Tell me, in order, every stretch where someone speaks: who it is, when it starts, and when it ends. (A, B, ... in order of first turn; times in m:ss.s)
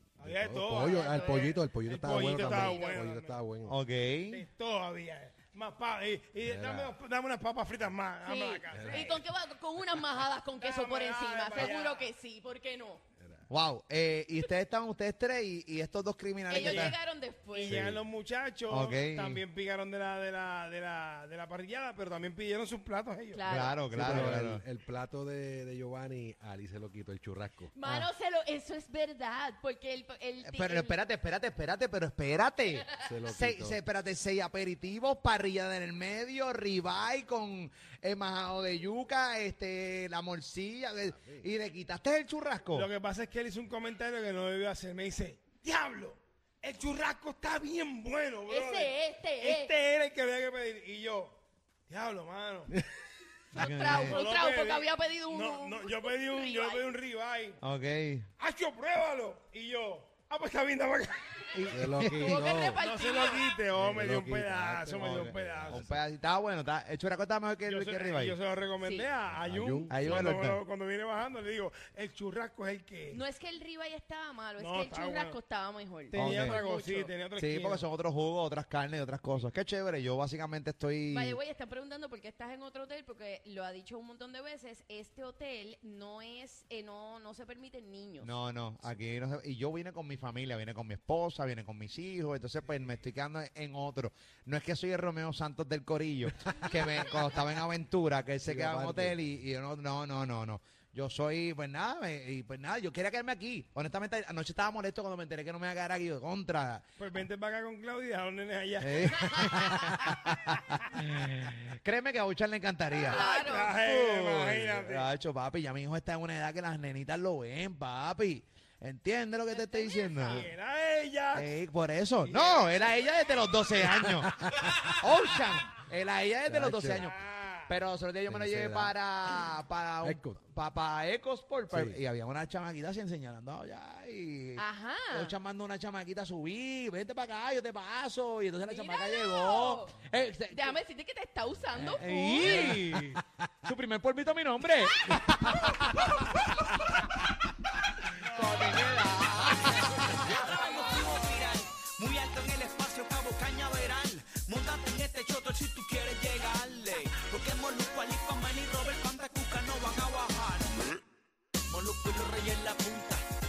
0:00.2-0:03.8 A
0:00.2-0:03.4 B
0:00.8-0:01.6 C
0:02.1-0:03.0 C
0:03.6-0:04.5 D
0:04.3-0:09.2 B
0:06.4-0:07.0 A
0:08.2-0:13.0 C
0:08.7-0:09.2 A
0:10.6-0:12.1 B
0:13.2-0:13.5 A
0:13.5-0:17.0 D
0:16.5-0:17.8 C
0:16.5-0:23.6 B
0:17.7-0:18.0 D
0:18.7-0:19.4 D
0:23.3-0:23.8 C
0:23.5-0:24.6 D
0:23.9-0:27.7 A
0:27.7-0:31.0 C
0:30.4-0:42.9 D
0:33.0-0:33.8 A
0:41.1-0:41.4 A
0:42.7-0:51.4 B
0:48.5-0:49.7 C
0:51.9-0:52.8 B
0:53.5-0:54.2 D
0:53.5-0:56.8 C
0:53.7-0:57.6 B
0:57.6-0:58.3 D
0:58.4-1:01.8 B
1:01.5-1:02.4 D
1:01.7-1:02.8 A
1:02.2-1:03.5 C
1:02.8-1:05.8 B
1:03.7-1:06.0 A
1:05.0-1:08.4 D
1:07.7-1:13.2 B
1:08.8-1:09.1 C
1:09.3-1:10.6 A
1:09.9-1:10.6 D
1:13.1-1:17.1 C
1:14.6-1:15.4 B
1:16.1-1:17.8 B
1:16.2-1:16.6 D
1:17.4-1:21.4 D
1:21.1-1:28.3 C
1:28.2-1:46.8 D
1:38.4-1:39.2 A
1:47.0-1:49.8 B
1:48.8-2:00.5 D
1:53.0-1:55.1 B
1:53.0-1:53.8 C
1:59.5-2:00.5 C
2:00.2-2:01.6 B
2:01.3-2:07.1 D
2:02.2-2:03.5 B
2:03.8-2:05.0 A
2:06.5-2:07.1 A
2:07.0-2:07.8 B
2:07.7-2:20.8 D
2:08.3-2:08.9 A
2:10.0-2:10.5 A
2:11.7-2:12.0 A
2:14.6-2:15.4 C
2:18.7-2:20.0 C
2:20.5-2:22.9 C
2:21.7-2:27.2 D
2:28.1-2:30.3 D
2:29.9-2:40.9 E
2:30.6-2:31.4 B
2:41.7-2:43.3 E